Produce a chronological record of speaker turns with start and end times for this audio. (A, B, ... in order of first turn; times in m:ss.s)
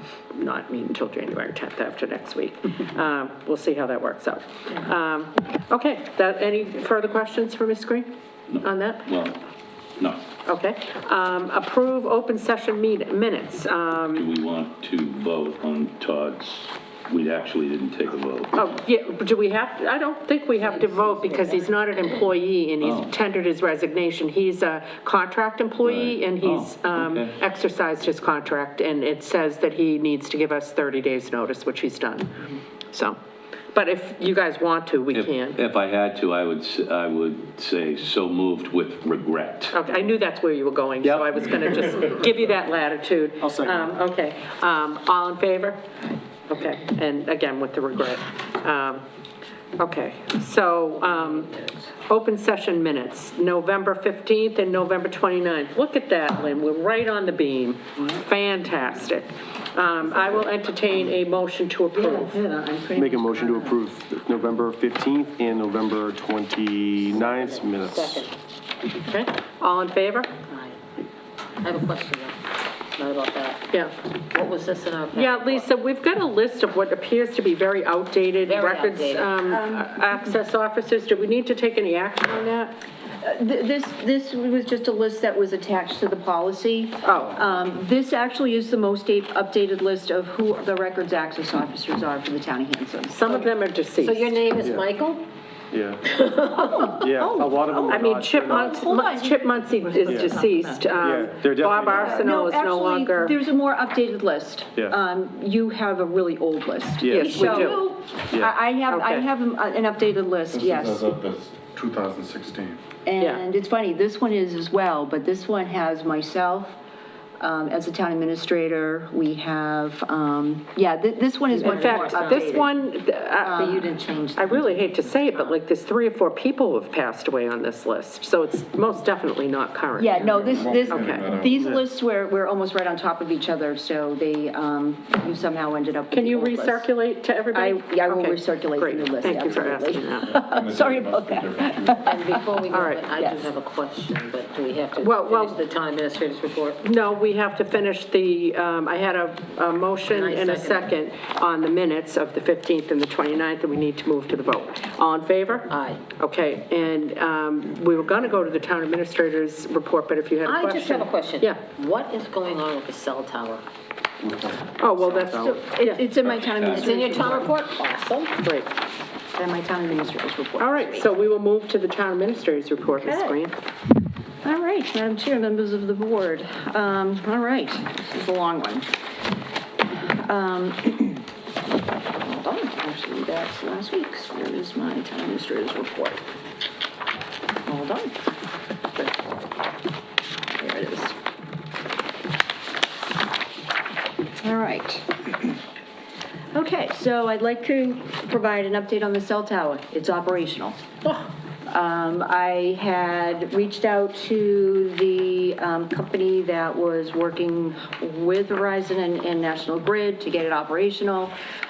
0:00.3-0:08.1 A
0:08.5-0:09.4 B
0:08.6-0:09.1 A
0:10.4-0:14.3 A
0:14.1-0:18.7 B
0:18.5-0:33.2 A
0:20.6-0:21.6 C
0:22.8-0:23.1 B
0:25.8-0:27.3 B
0:33.7-0:35.6 A
0:35.1-0:39.8 B
0:39.7-0:45.8 A
0:43.4-0:43.9 D
0:46.5-0:49.0 A
0:49.8-1:02.4 A
1:02.3-1:03.0 E
1:02.9-1:08.3 D
1:07.2-1:08.3 C
1:09.0-1:10.3 A
1:10.5-1:10.8 C
1:11.6-1:12.4 C
1:13.0-1:13.6 C
1:14.3-1:15.6 C
1:15.1-1:22.7 A
1:18.4-1:19.3 C
1:19.5-1:20.1 E
1:23.2-1:33.5 E
1:27.0-1:27.4 A
1:33.1-1:34.3 A
1:34.0-1:35.2 C
1:34.6-1:34.9 D
1:35.7-1:36.0 D
1:36.1-1:36.9 C
1:36.5-1:38.0 E
1:36.9-1:38.8 D
1:37.8-1:43.4 A
1:38.5-1:39.4 E
1:40.0-1:40.4 D
1:40.1-1:40.5 E
1:41.0-1:42.3 D
1:41.9-1:51.2 E
1:47.0-1:47.7 D
1:47.1-1:47.9 A
1:48.9-1:49.2 A
1:50.5-1:52.8 F
1:53.0-1:56.8 E
1:57.4-2:02.8 E
2:01.6-2:11.4 A
2:03.4-2:04.8 E
2:10.0-2:16.9 E
2:10.5-2:11.8 F
2:16.1-2:20.6 A
2:17.5-2:22.6 E
2:20.4-2:22.0 F
2:22.0-2:26.8 C
2:22.7-2:23.0 A
2:23.2-2:23.5 E
2:25.0-2:25.6 A
2:26.8-2:41.6 A
2:30.1-2:30.9 C
2:35.7-2:36.0 C
2:40.4-2:43.6 C
2:44.8-2:46.0 A
2:45.0-2:47.5 E
2:46.3-2:47.4 B
2:46.7-2:48.3 C
2:48.4-2:48.7 A
2:49.3-2:51.1 E
2:50.6-2:53.5 A
2:53.0-2:53.4 E
2:54.4-2:58.9 E
3:00.2-3:01.3 E
3:02.2-3:06.2 E
3:07.6-3:08.1 E
3:10.5-3:11.2 E
3:14.4-3:15.5 E
3:16.5-3:20.8 E
3:21.7-3:31.3 E